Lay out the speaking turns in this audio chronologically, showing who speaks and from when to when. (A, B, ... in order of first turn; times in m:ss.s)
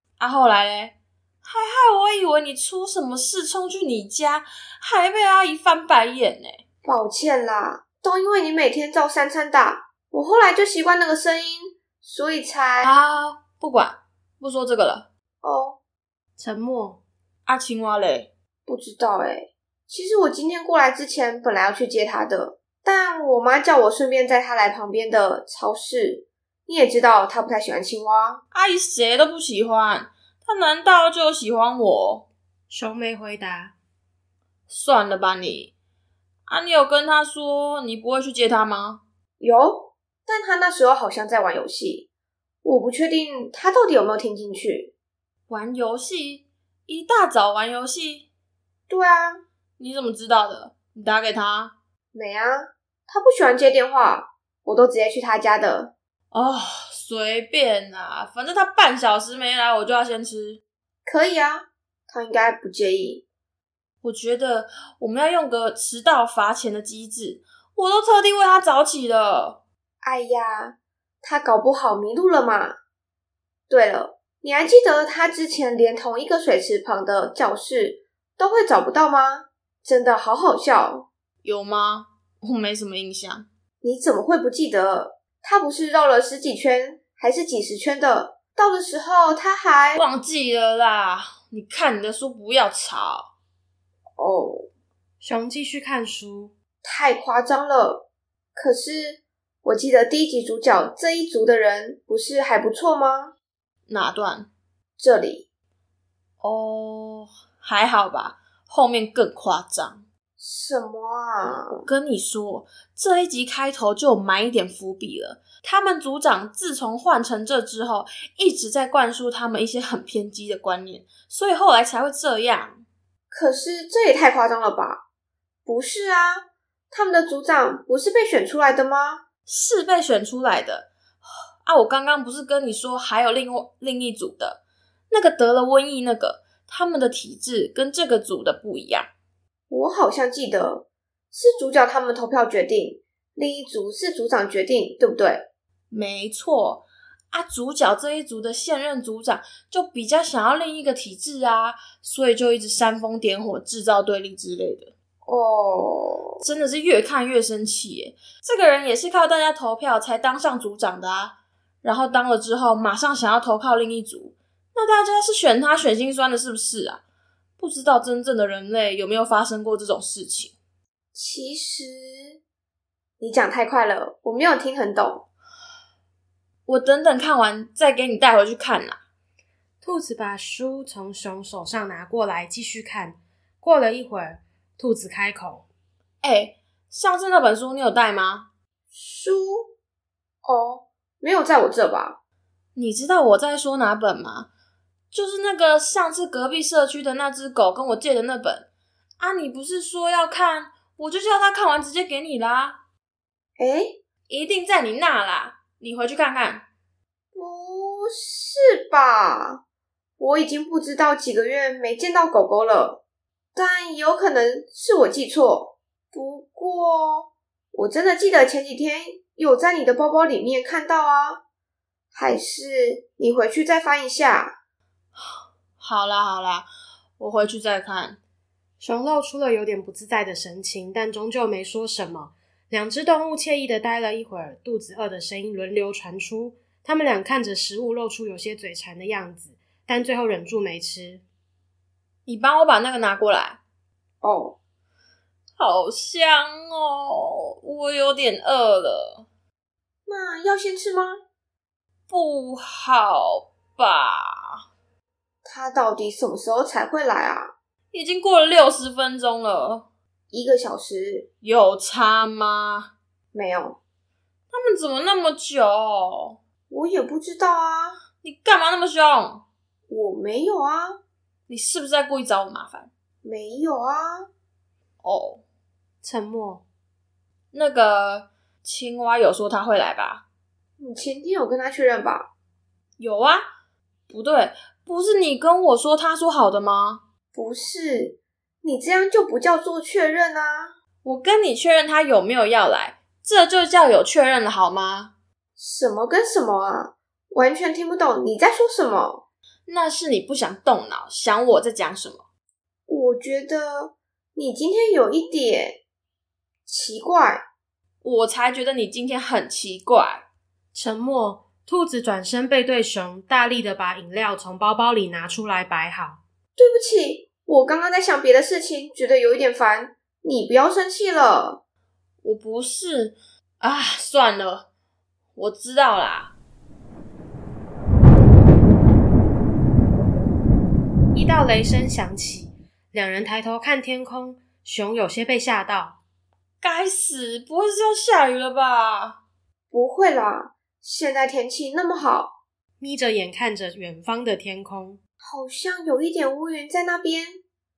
0:00.2-0:06.6 A
0:06.8-0:12.9 B
0:12.8-0:15.1 A
0:15.4-0:15.8 B
0:16.4-0:17.0 C
0:17.5-0:18.3 A
0:18.7-0:28.4 B
0:28.5-0:32.3 A
0:32.7-0:33.7 C
0:34.7-0:35.7 A
0:36.5-0:39.0 A
0:39.4-0:42.1 B
0:42.6-0:44.9 B
0:45.5-0:48.3 A
0:48.9-0:49.4 B
0:49.8-0:51.7 A
0:52.1-0:55.9 B
0:56.3-1:00.6 A
1:01.1-1:03.2 B
1:04.0-1:09.6 A
1:10.0-1:12.8 B
1:13.7-1:21.1 B
1:21.4-1:23.5 A
1:23.8-1:30.0 B
1:30.0-1:33.3 A
1:34.2-1:34.7 B
1:35.2-1:36.5 C
1:36.8-1:43.3 B
1:43.9-1:44.5 A
1:45.0-1:45.4 B
1:46.4-1:50.1 A
1:50.4-1:51.8 B
1:51.8-2:02.8 A
2:03.3-2:05.0 B
2:05.7-2:09.2 B
2:09.5-2:10.9 A
2:11.6-2:19.1 A
2:19.7-2:25.5 B
2:25.9-2:34.9 A
2:35.2-2:36.4 B
2:36.4-2:47.0 A
2:47.6-2:50.5 A
2:51.1-2:52.4 B
2:53.2-2:55.3 B
2:56.7-2:59.0 A
2:59.8-3:05.7 C
3:06.2-3:08.5 A
3:08.9-3:09.7 B
3:10.4-3:12.2 B
3:12.8-3:14.5 A
3:15.1-3:18.7 A
3:19.2-3:22.8 A
3:23.6-3:24.0 B
3:24.3-3:26.7 A
3:27.3-3:29.6 B
3:30.2-3:33.0 B
3:33.6-3:41.4 B
3:42.1-3:44.6 B
3:45.8-3:46.7 A
3:47.2-3:48.2 A
3:48.8-4:01.2 C
4:02.3-4:03.6 A
4:04.2-4:04.6 B
4:05.6-4:09.3 A
4:10.1-4:11.2 B
4:12.1-4:14.6 A
4:15.4-4:17.5 B
4:17.9-4:19.9 A
4:20.3-4:21.3 B
4:21.4-4:22.9 A
4:23.3-4:23.8 B
4:24.5-4:26.4 A
4:26.7-4:28.0 B
4:28.2-4:29.4 A
4:29.9-4:31.0 B
4:31.5-4:32.9 A
4:33.2-4:34.3 B
4:35.0-4:35.4 A
4:36.0-4:36.6 C
4:37.5-4:40.2 A
4:40.8-4:42.3 B
4:43.0-4:43.4 A
4:44.1-4:47.0 A
4:47.3-4:50.7 B
4:51.0-4:55.1 A
4:55.6-4:59.2 B
4:59.7-5:02.2 A
5:02.9-5:05.8 B
5:06.7-5:07.4 B
5:08.0-5:10.2 A
5:10.7-5:16.2 C
5:16.6-5:21.6 B
5:22.2-5:24.7 A
5:25.4-5:26.3 A
5:31.1-5:36.0 C
5:36.6-5:39.2 A
5:39.7-5:42.4 B
5:42.8-5:45.0 C
5:45.2-5:47.4 B